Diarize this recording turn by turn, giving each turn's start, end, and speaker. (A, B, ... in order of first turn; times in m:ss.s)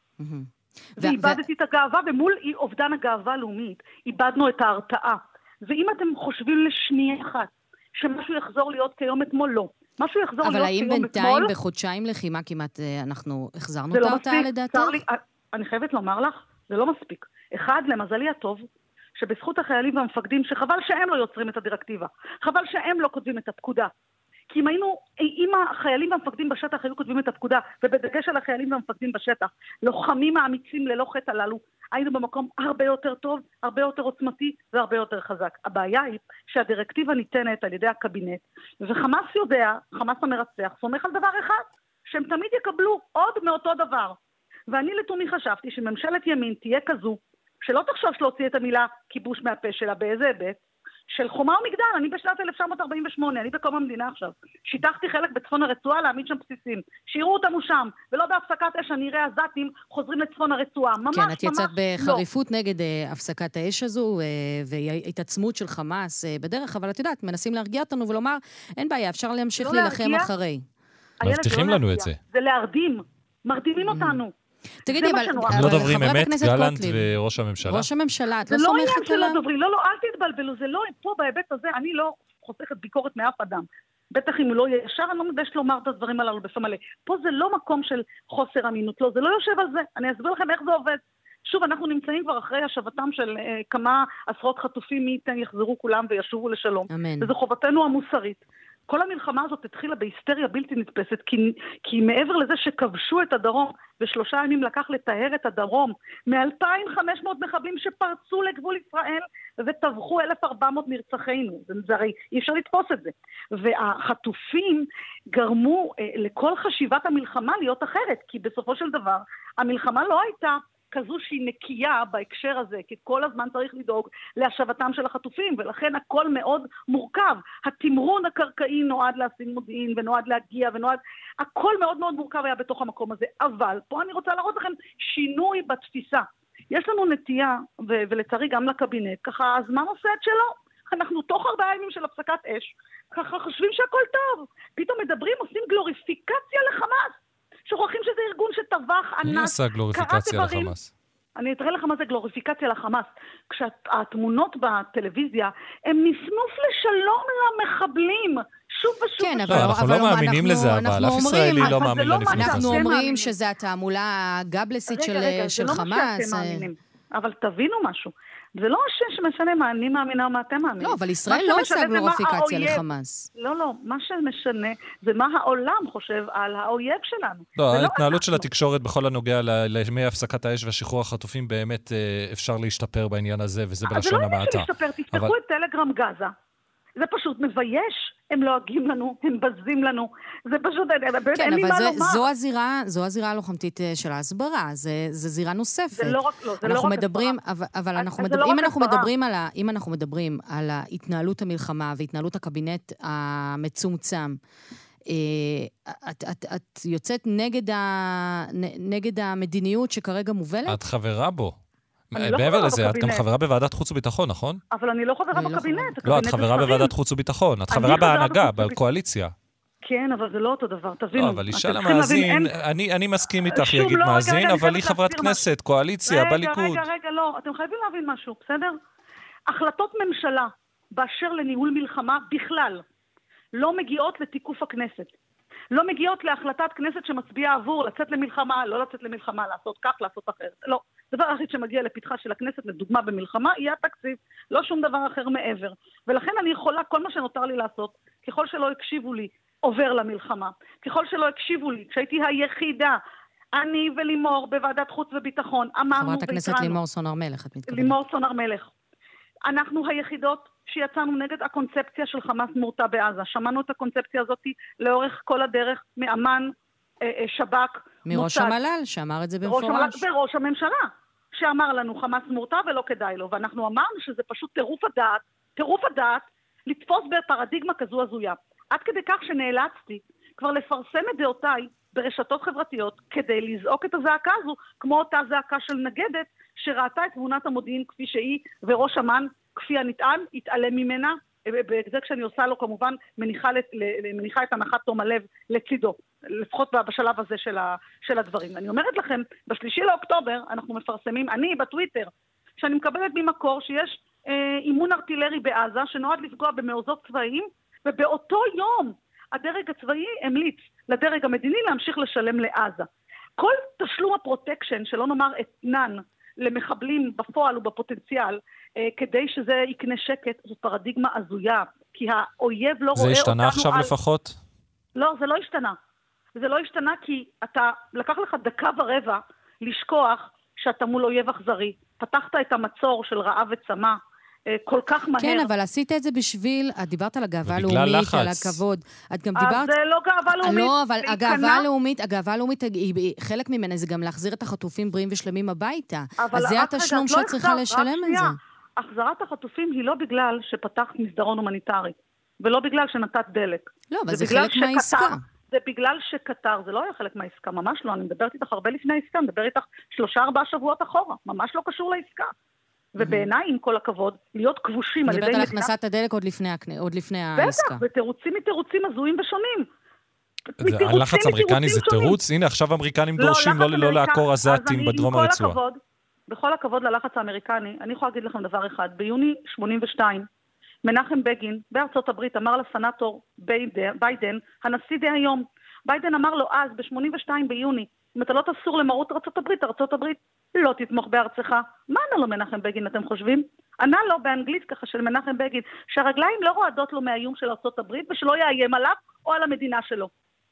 0:00.2-0:01.4 A
0:01.0-0:11.5 B
0:10.4-0:15.0 A
0:13.9-0:18.6 B
0:19.2-0:23.9 B
0:24.5-0:44.2 B
0:44.7-1:02.2 B
1:01.1-1:10.6 A
1:09.6-1:10.3 B
1:11.2-1:14.3 B
1:11.2-1:12.2 C
1:13.8-1:14.2 A
1:14.8-1:17.1 A
1:14.9-1:15.9 B
1:15.5-1:17.9 C
1:17.6-1:19.4 A
1:18.5-2:30.7 B
1:36.9-1:37.3 A
2:29.2-2:30.9 C
2:31.4-2:39.7 B
2:39.2-2:46.7 A
2:39.5-2:42.8 C
2:41.3-2:43.3 B
2:44.9-2:52.8 B
2:50.8-2:53.3 A
2:53.3-2:58.5 B
2:57.6-3:05.3 C
3:03.9-3:06.3 B
3:07.0-3:12.2 B
3:11.3-3:24.4 A
3:16.0-3:17.4 B
3:18.0-3:19.1 B
3:25.1-3:30.8 A
3:30.7-3:31.5 C
3:32.1-3:34.6 C
3:32.2-3:33.2 B
3:34.7-3:36.9 B
3:35.3-3:36.0 A
3:36.0-3:39.3 C
3:37.7-3:38.8 B
3:39.8-3:42.5 B
3:41.1-3:46.9 C
3:43.5-3:45.4 B
3:46.1-3:48.8 B
3:49.5-3:52.8 B
3:53.5-3:55.1 B
3:55.7-4:13.0 B
4:13.5-4:16.8 B
4:15.9-4:18.0 A
4:17.7-4:18.7 B
4:19.5-4:26.5 B
4:27.0-4:28.6 B
4:28.1-4:30.0 A
4:29.4-5:23.9 B
5:23.0-5:24.4 C
5:25.0-5:25.8 B
5:26.4-5:34.0 B
5:34.5-5:35.5 B
5:35.2-5:39.7 A
5:37.5-5:38.6 C
5:39.4-5:41.6 B
5:40.4-5:48.4 A
5:46.2-6:02.3 B
5:53.9-5:55.2 A
6:02.9-6:05.7 B
6:03.0-6:03.2 A
6:05.0-6:07.8 A
6:07.4-6:09.6 B
6:10.6-6:12.2 B
6:10.6-6:15.6 C
6:13.2-6:20.2 B
6:20.8-6:40.1 B